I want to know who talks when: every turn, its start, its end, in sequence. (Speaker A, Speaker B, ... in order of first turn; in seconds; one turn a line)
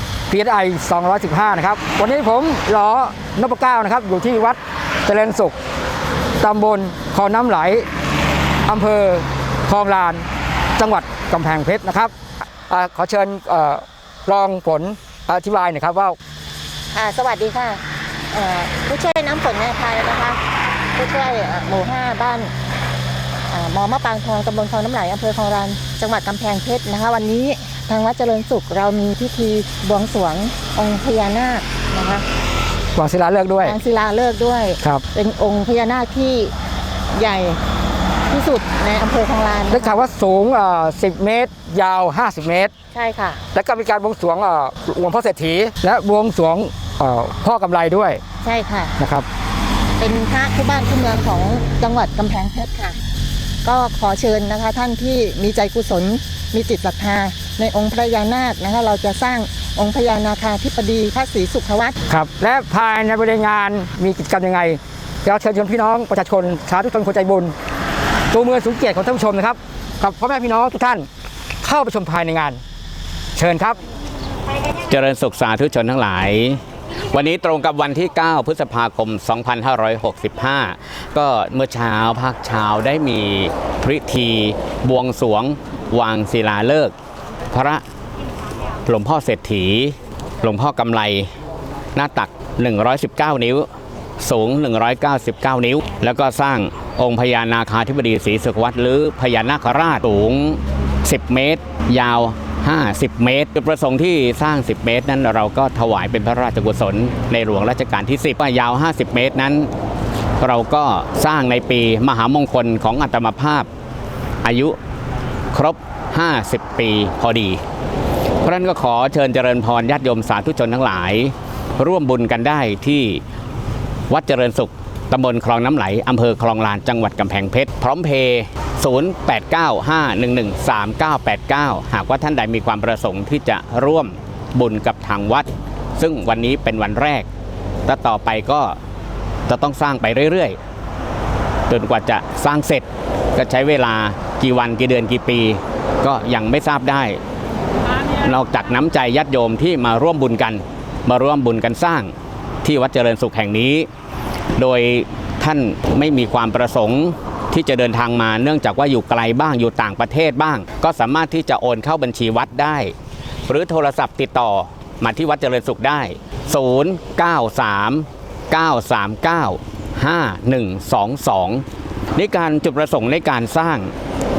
Speaker A: 0.3-5.6
Speaker A: 6.4-7.9
Speaker A: 8.7-12.1
Speaker A: 12.7-16.2
Speaker B: 16.9-17.8
Speaker B: 18.3-20.4
Speaker B: 20.9-22.5
Speaker B: 23.5-32.2
Speaker A: 33.0-33.8
Speaker B: 33.6-36.5
Speaker B: 37.1-37.6
Speaker B: 38.3-40.0
Speaker A: 39.7-42.7
Speaker B: 42.9-43.4
Speaker A: 43.5-48.2
Speaker B: 48.4-49.0
Speaker A: 49.0-49.3
Speaker B: 50.0-53.0
Speaker B: 53.6-62.0
Speaker A: 62.1-67.5
Speaker A: 68.3-71.1
Speaker A: 71.6-72.6
Speaker A: 73.3-73.8
Speaker C: 74.9-86.9
Speaker C: 87.5-87.8
Speaker C: 88.9-91.3
Speaker C: 92.0-93.7
Speaker C: 94.2-109.7
Speaker C: 110.4-113.7
Speaker C: 114.4-114.8
Speaker C: 115.5-117.6
Speaker C: 118.4-123.2
Speaker C: 124.1-137.3
Speaker C: 137.9-138.8
Speaker C: 139.5-140.6
Speaker C: 141.7-147.2
Speaker C: 148.2-153.9
Speaker C: 154.6-162.9
Speaker C: 163.5-171.6
Speaker C: 172.2-173.9